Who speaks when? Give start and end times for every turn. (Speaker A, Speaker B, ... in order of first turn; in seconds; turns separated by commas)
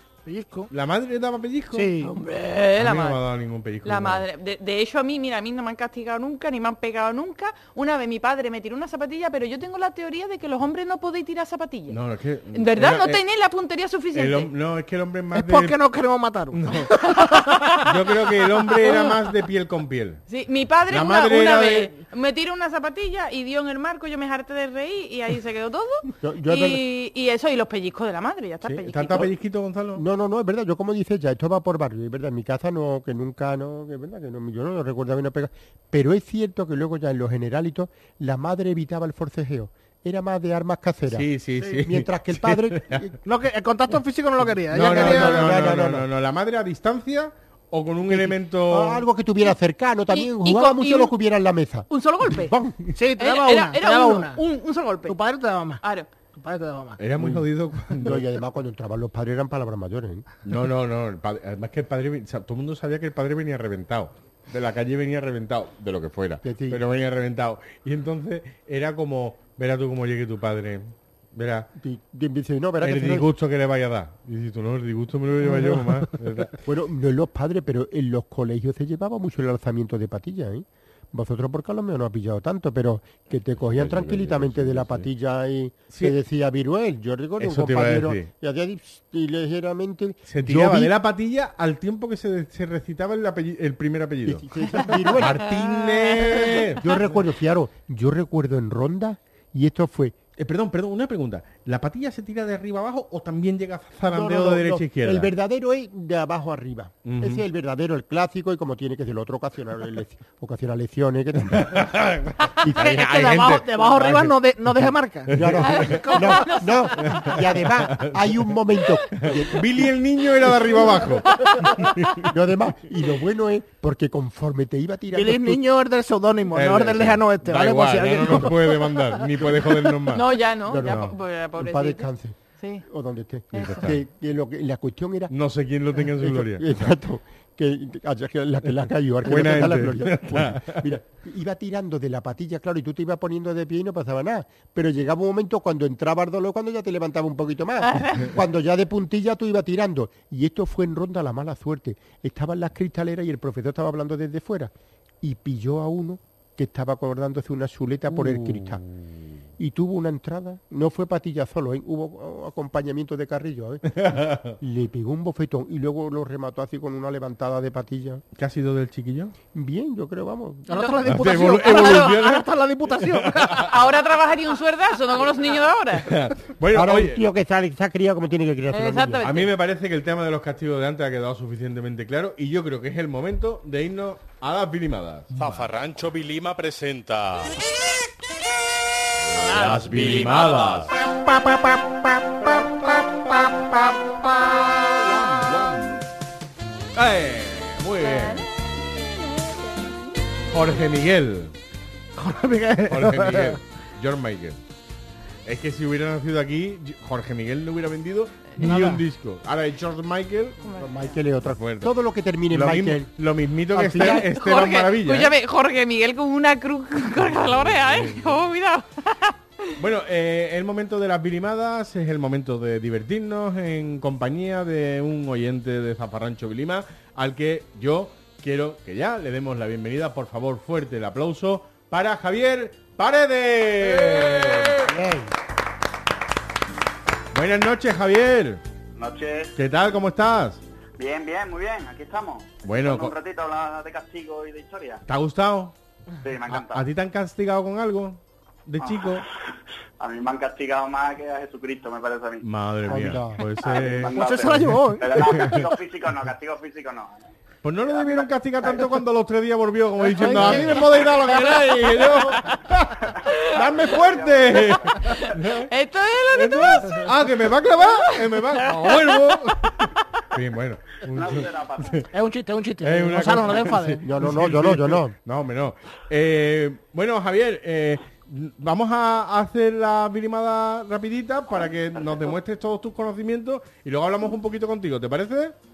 Speaker A: 0.2-0.7, Speaker B: 0.7-1.9, Speaker A: 1.7-2.1, Speaker C: 2.0-3.2, Speaker B: 2.8-4.2, Speaker C: 3.8-12.0, Speaker B: 11.9-13.2, Speaker C: 12.5-14.5, Speaker B: 14.1-15.8, Speaker A: 15.3-17.8, Speaker B: 16.5-17.0, Speaker C: 17.5-17.8, Speaker B: 17.8-20.2, Speaker C: 18.8-19.2, Speaker C: 20.3-29.3, Speaker B: 20.9-21.9, Speaker D: 26.2-26.8, Speaker B: 28.6-30.0, Speaker D: 29.9-43.1, Speaker B: 41.1-43.1, Speaker A: 43.2-45.5, Speaker B: 44.7-49.0, Speaker D: 44.8-46.1, Speaker D: 48.1-52.9, Speaker C: 50.1-51.1, Speaker C: 51.9-52.5, Speaker A: 52.9-54.4, Speaker C: 53.2-55.1, Speaker A: 55.0-55.8, Speaker C: 55.8-56.1, Speaker A: 56.3-57.0, Speaker B: 57.0-58.2, Speaker D: 57.2-57.4, Speaker D: 58.0-60.2, Speaker B: 60.5-71.7, Speaker D: 66.4-66.8, Speaker D: 71.8-73.3, Speaker B: 72.8-76.6, Speaker D: 76.6-90.9, Speaker B: 83.7-85.1, Speaker B: 85.9-86.2, Speaker B: 87.4-88.3, Speaker B: 90.3-94.5, Speaker D: 94.2-95.5, Speaker B: 95.2-97.2, Speaker C: 95.5-96.6, Speaker D: 96.3-100.2, Speaker B: 100.4-105.3, Speaker D: 104.0-111.9, Speaker B: 107.0-107.4, Speaker B: 111.5-114.4, Speaker D: 112.6-113.0, Speaker A: 112.7-116.6, Speaker B: 115.3-116.0, Speaker D: 115.3-119.9, Speaker C: 115.6-117.2, Speaker B: 117.0-118.5, Speaker B: 119.2-122.3, Speaker C: 121.3-121.9, Speaker D: 122.2-125.6, Speaker A: 125.1-129.1, Speaker B: 126.5-131.1, Speaker C: 130.1-132.1, Speaker D: 130.7-135.3, Speaker C: 132.6-132.8, Speaker C: 133.5-133.9, Speaker B: 133.7-133.9, Speaker B: 135.3-136.9, Speaker D: 135.9-158.8, Speaker B: 139.2-140.8, Speaker C: 147.8-148.3, Speaker B: 158.1-159.2, Speaker D: 159.6-168.2, Speaker B: 163.9-164.6, Speaker B: 168.3-169.3, Speaker D: 169.5-170.7, Speaker A: 170.7-173.6, Speaker C: 170.7-171.0, Speaker B: 171.0-173.7, Speaker C: 171.5-172.3, Speaker C: 173.5-176.1, Speaker B: 176.0-177.2, Speaker D: 176.7-179.2, Speaker C: 178.7-179.5, Speaker B: 179.2-187.6, Speaker B: 189.2-196.0, Speaker C: 189.4-190.4, Speaker B: 196.9-198.5, Speaker C: 198.0-200.4, Speaker B: 200.5-201.5, Speaker A: 202.2-203.6, Speaker B: 202.9-204.6, Speaker B: 205.4-210.6, Speaker A: 208.6-209.0, Speaker C: 210.6-211.1, Speaker D: 210.8-213.1, Speaker B: 211.4-211.9, Speaker B: 212.5-215.3, Speaker D: 213.7-214.3, Speaker C: 214.0-219.7, Speaker B: 217.2-218.2, Speaker B: 219.8-234.9, Speaker D: 234.8-235.3, Speaker B: 237.3-238.6, Speaker E: 239.0-239.5, Speaker B: 239.6-240.6, Speaker E: 241.0-245.0, Speaker B: 242.6-243.1, Speaker B: 245.1-245.7, Speaker E: 246.2-246.8, Speaker B: 246.5-249.2, Speaker E: 248.8-249.3, Speaker E: 250.0-252.5, Speaker B: 252.4-254.2, Speaker D: 252.9-253.4, Speaker E: 253.6-257.3, Speaker A: 254.1-255.1, Speaker B: 255.1-255.7, Speaker B: 257.6-265.7, Speaker E: 257.8-258.9, Speaker A: 260.2-260.7, Speaker C: 260.3-260.7, Speaker D: 260.3-260.6, Speaker C: 261.2-261.6, Speaker E: 263.1-265.1, Speaker C: 263.3-263.5, Speaker C: 265.0-267.1, Speaker B: 266.3-272.1, Speaker C: 267.8-269.4, Speaker E: 271.1-272.1, Speaker A: 272.1-274.0, Speaker B: 272.8-285.5, Speaker D: 274.0-275.1, Speaker E: 281.6-282.3